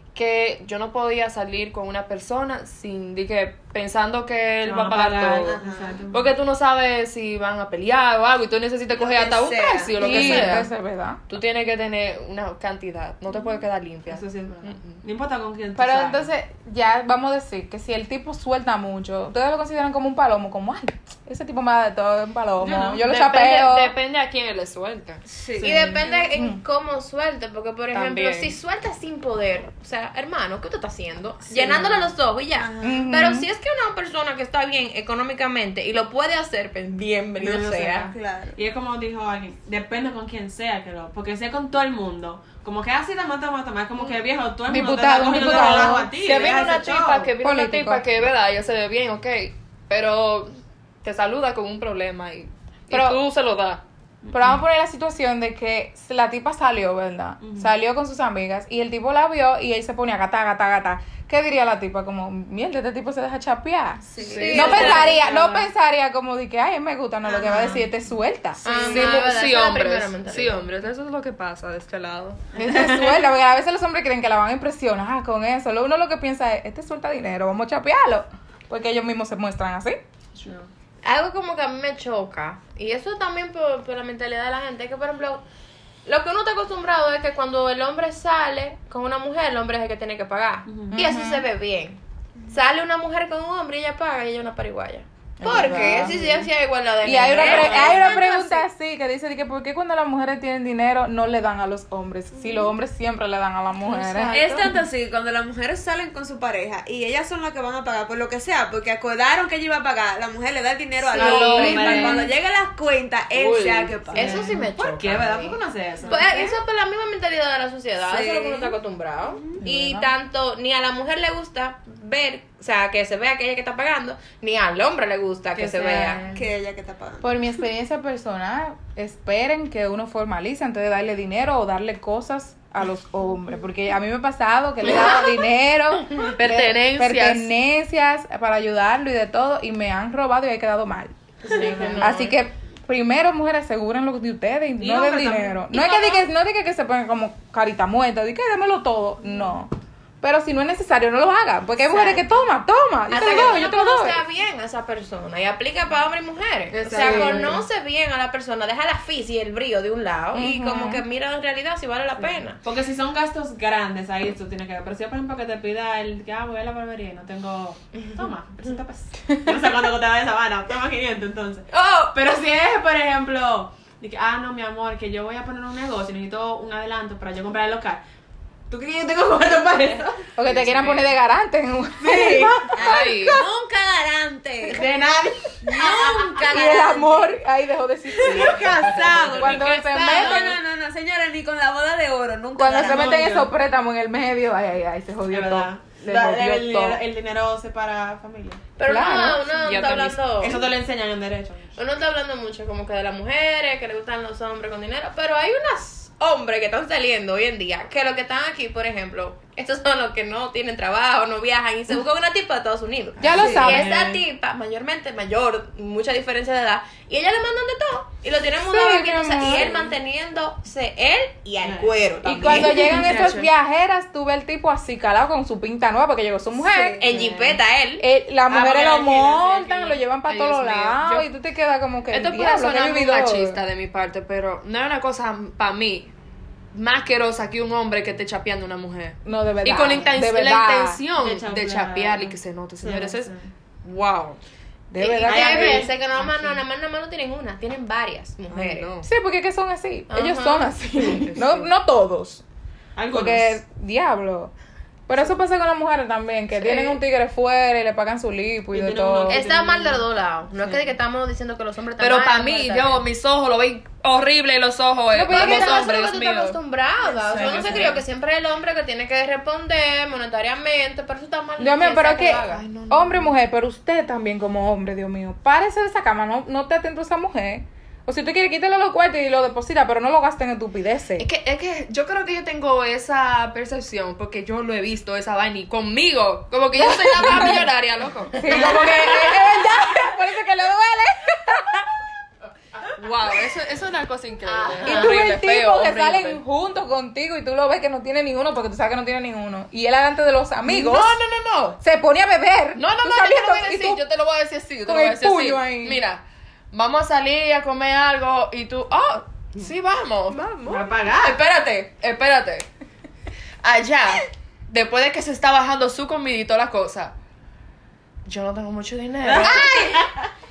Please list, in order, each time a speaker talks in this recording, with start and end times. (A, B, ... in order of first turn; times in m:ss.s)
0:00.1-0:10.7 A
0:04.6-0:06.3 B
0:05.4-0:06.0 C
0:08.9-0:10.6 C
0:10.0-0:11.2 D
0:11.3-0:15.0 A
0:14.1-0:16.3 B
0:15.8-0:24.0 D
0:22.6-0:25.2 A
0:25.2-0:25.9 C
0:25.6-0:26.1 B
0:25.6-0:38.1 E
0:26.3-0:26.6 D
0:27.9-0:28.6 A
0:31.6-0:32.0 C
0:32.6-0:33.1 C
0:32.8-0:33.5 D
0:37.4-0:38.6 C
0:38.5-0:47.3 B
0:44.7-0:46.1 D
0:45.4-0:53.8 A
0:47.4-0:48.1 D
0:52.9-0:53.2 D
0:54.2-0:54.6 B
0:54.3-1:08.9 D
0:57.4-0:57.7 B
1:04.2-1:05.2 C
1:04.2-1:05.1 A
1:04.4-1:05.0 E
1:04.4-1:05.7 B
1:07.4-1:07.9 B
1:08.6-1:12.4 A
1:08.6-1:10.7 E
1:12.5-1:13.2 B
1:12.6-1:20.0 D
1:20.4-1:20.7 B
1:21.0-1:25.4 E
1:26.0-1:38.6 E
1:30.6-1:31.0 B
1:30.9-1:31.4 D
1:35.4-1:36.1 D
1:35.5-1:36.1 A
1:37.0-1:44.4 D
1:37.4-1:37.9 B
1:37.4-1:38.1 C
1:42.4-1:42.7 C
1:43.9-1:44.7 E
1:44.3-1:54.6 C
1:51.1-1:52.2 E
1:51.1-1:52.2 A
1:51.2-1:52.2 B
1:51.6-1:52.2 D
1:53.3-1:54.3 A
1:54.1-2:06.2 E
1:54.1-1:56.6 B
1:56.0-1:56.3 C
1:58.0-1:58.8 C
1:59.3-1:59.6 C
1:59.6-2:00.1 D
2:05.6-2:06.4 B
2:06.3-2:07.4 C
2:07.2-2:34.2 D
2:16.2-2:17.5 A
2:21.4-2:22.1 B
2:21.4-2:22.3 E
2:21.6-2:21.9 A
2:24.8-2:25.9 B
2:25.7-2:26.2 E
2:31.9-2:32.2 E
2:33.1-2:42.6 E
2:36.7-2:37.6 A
2:37.0-2:37.5 D
2:40.3-2:41.0 D
2:42.2-2:58.0 B
2:58.7-3:01.1 B
3:00.4-3:03.4 D
3:02.0-3:02.6 B
3:02.7-3:04.9 C
3:02.8-3:03.4 A
3:04.6-3:06.3 B
3:05.6-3:07.0 C
3:05.8-3:07.3 E
3:06.4-3:10.6 D
3:08.2-3:13.4 C
3:08.2-3:09.7 B
3:12.6-3:17.0 D
3:12.8-3:13.5 B
3:15.3-3:18.7 B
3:18.8-3:20.6 E
3:18.8-3:19.5 D
3:19.6-3:20.3 A
3:20.4-3:21.8 B
3:21.8-3:43.1 E
3:33.2-3:34.0 D
3:33.2-3:34.2 B
3:38.6-3:39.9 D
3:41.6-3:43.4 B
3:42.2-3:47.1 D
3:42.9-3:43.5 A
3:46.9-3:48.0 E
3:47.1-3:47.6 B
3:48.0-3:53.6 D
3:48.5-3:50.0 B
3:50.2-3:51.3 A
3:52.1-3:56.1 A
3:56.7-4:03.3 A
3:59.2-4:01.0 D
4:01.2-4:03.5 B
4:03.8-4:04.4 A
4:04.9-4:05.9 D
4:05.0-4:08.9 E
4:05.2-4:06.0 B
4:06.2-4:06.5 A
4:08.5-4:09.1 A
4:09.0-4:12.4 D
4:10.1-4:10.8 E
4:11.1-4:11.7 A
4:13.0-4:13.6 B
4:13.1-4:14.5 D
4:15.1-4:19.4 D
4:18.7-4:20.0 B
4:19.3-4:23.0 E
4:20.6-4:20.9 B
4:22.0-4:26.6 A
4:25.1-4:25.9 D
4:25.2-4:32.6 E
4:27.0-4:28.0 B
4:27.5-4:27.9 A
4:31.6-4:41.3 D
4:32.3-4:33.3 A
4:41.2-4:49.5 A
4:46.7-4:47.7 D
4:48.3-4:51.9 D
4:53.0-4:56.4 A
4:54.5-4:55.1 E
4:54.8-5:01.2 D
5:00.6-5:01.8 A
5:01.8-5:04.0 D
5:02.8-5:10.5 A
5:04.8-5:06.0 D
5:10.3-5:10.9 E
5:10.6-5:11.4 B
5:11.2-5:12.7 A
5:13.6-5:17.1 A
5:18.2-5:20.0 A
5:19.2-5:20.3 B
5:19.4-5:20.1 D